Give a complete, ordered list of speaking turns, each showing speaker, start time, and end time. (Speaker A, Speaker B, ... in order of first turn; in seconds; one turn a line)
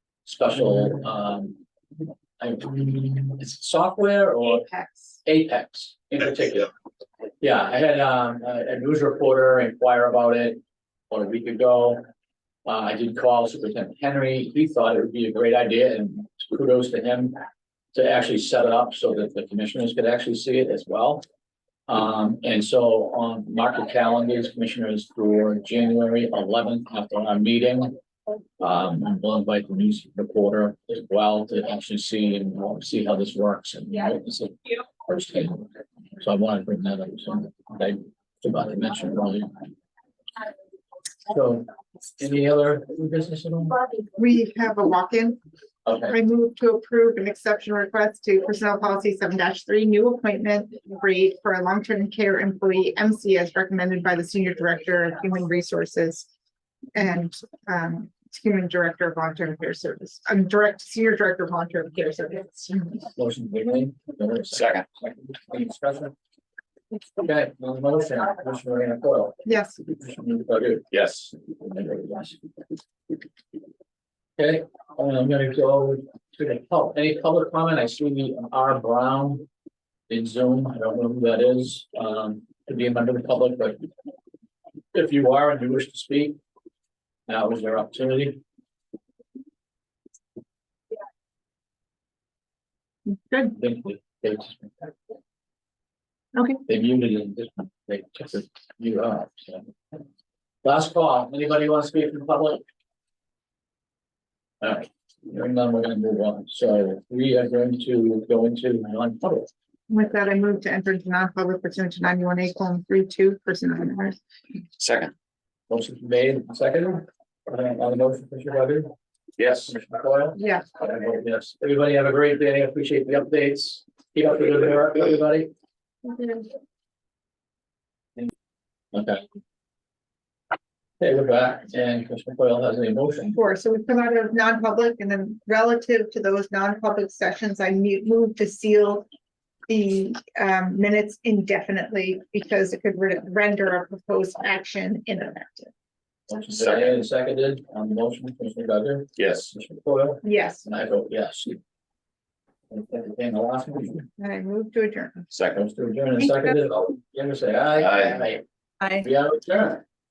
Speaker A: 0.2-1.6
Speaker A: 2.4-4.7
Speaker B: 4.4-5.2
Speaker A: 5.2-6.7
Speaker A: 7.4-10.6
Speaker A: 11.1-12.0
Speaker A: 12.7-17.4
Speaker A: 17.9-21.2
Speaker A: 21.9-27.9
Speaker A: 28.6-35.7
Speaker A: 36.2-39.7
Speaker A: 41.3-43.8
Speaker B: 44.2-45.4
Speaker A: 45.9-46.1
Speaker B: 46.1-56.3
Speaker B: 57.0-63.0
Speaker A: 63.1-66.1
Speaker C: 64.5-64.8
Speaker A: 67.2-72.4
Speaker B: 69.4-69.8
Speaker C: 70.9-71.3
Speaker A: 74.4-79.5
Speaker A: 80.1-83.9
Speaker A: 84.9-86.4
Speaker A: 87.3-88.4
Speaker B: 93.0-93.5
Speaker A: 93.5-94.9
Speaker B: 96.3-96.6
Speaker A: 96.7-99.7
Speaker A: 100.6-102.6
Speaker A: 104.6-109.5
Speaker B: 109.9-114.2
Speaker C: 114.8-115.1
Speaker A: 115.7-118.9
Speaker C: 119.4-119.7
Speaker A: 119.6-125.5
Speaker B: 120.4-120.7
Speaker B: 126.0-126.5
Speaker A: 128.9-129.2
Speaker A: 131.0-133.4
Speaker B: 133.3-139.1
Speaker B: 139.7-145.7
Speaker A: 146.3-151.6
Speaker C: 146.6-146.9
Speaker C: 149.2-149.5
Speaker B: 150.2-150.7
Speaker A: 152.7-154.1
Speaker B: 154.2-155.3
Speaker C: 155.3-155.6
Speaker A: 155.5-158.4
Speaker C: 157.8-158.2
Speaker A: 159.0-159.8